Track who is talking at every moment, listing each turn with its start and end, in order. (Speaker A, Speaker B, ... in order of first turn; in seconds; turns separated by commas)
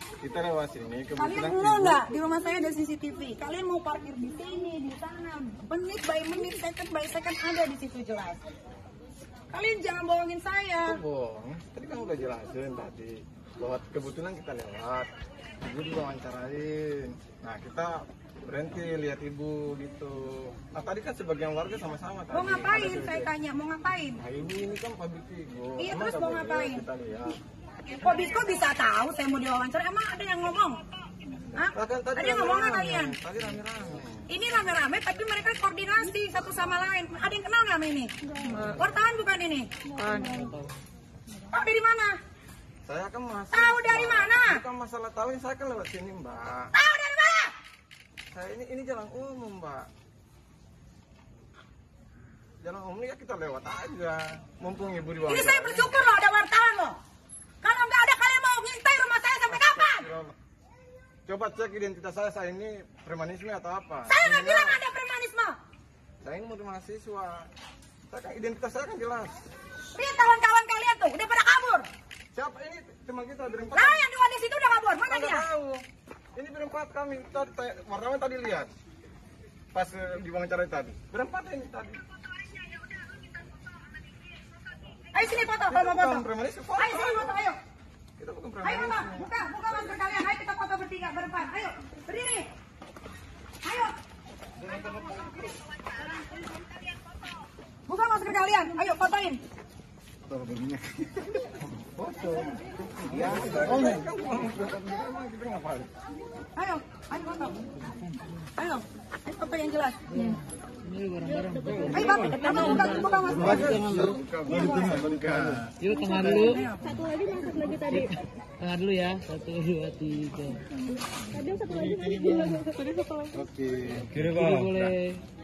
Speaker A: 0.2-2.1, Speaker B: 1.2-8.4, Speaker B: 9.5-11.0, Speaker A: 10.8-23.3, Speaker B: 22.3-24.2, Speaker A: 24.2-27.4, Speaker B: 25.8-26.9, Speaker B: 27.9-30.8, Speaker B: 31.5-33.2, Speaker A: 31.6-34.3, Speaker B: 34.3-39.9, Speaker A: 38.4-38.8, Speaker A: 40.0-40.5, Speaker C: 40.2-40.7, Speaker B: 41.5-42.2, Speaker A: 42.9-46.7, Speaker B: 43.5-44.6, Speaker B: 46.7-47.5, Speaker A: 48.3-49.9, Speaker A: 52.6-55.9, Speaker B: 55.3-57.0, Speaker B: 57.6-60.1, Speaker A: 59.5-60.4, Speaker A: 61.3-64.8, Speaker B: 64.1-65.6, Speaker A: 66.2-67.5, Speaker A: 68.1-69.4, Speaker B: 70.0-71.9, Speaker A: 72.3-74.1, Speaker B: 73.7-75.5, Speaker A: 75.1-75.8, Speaker A: 76.3-78.7, Speaker A: 79.7-82.0, Speaker B: 85.1-86.2, Speaker A: 85.7-87.4, Speaker B: 86.8-87.6, Speaker A: 88.2-89.3, Speaker B: 88.6-92.5, Speaker B: 93.6-94.0, Speaker B: 97.9-99.4, Speaker A: 100.3-105.9, Speaker C: 103.5-104.0, Speaker B: 106.6-107.6, Speaker B: 108.5-110.0, Speaker C: 110.1-116.6, Speaker D: 111.3-113.3, Speaker B: 111.9-113.8, Speaker A: 113.3-115.7, Speaker B: 114.4-115.1, Speaker D: 115.9-118.2, Speaker B: 116.3-117.0, Speaker C: 118.6-120.7, Speaker D: 121.1-123.4, Speaker A: 121.7-122.8, Speaker A: 123.3-124.9, Speaker C: 124.1-125.2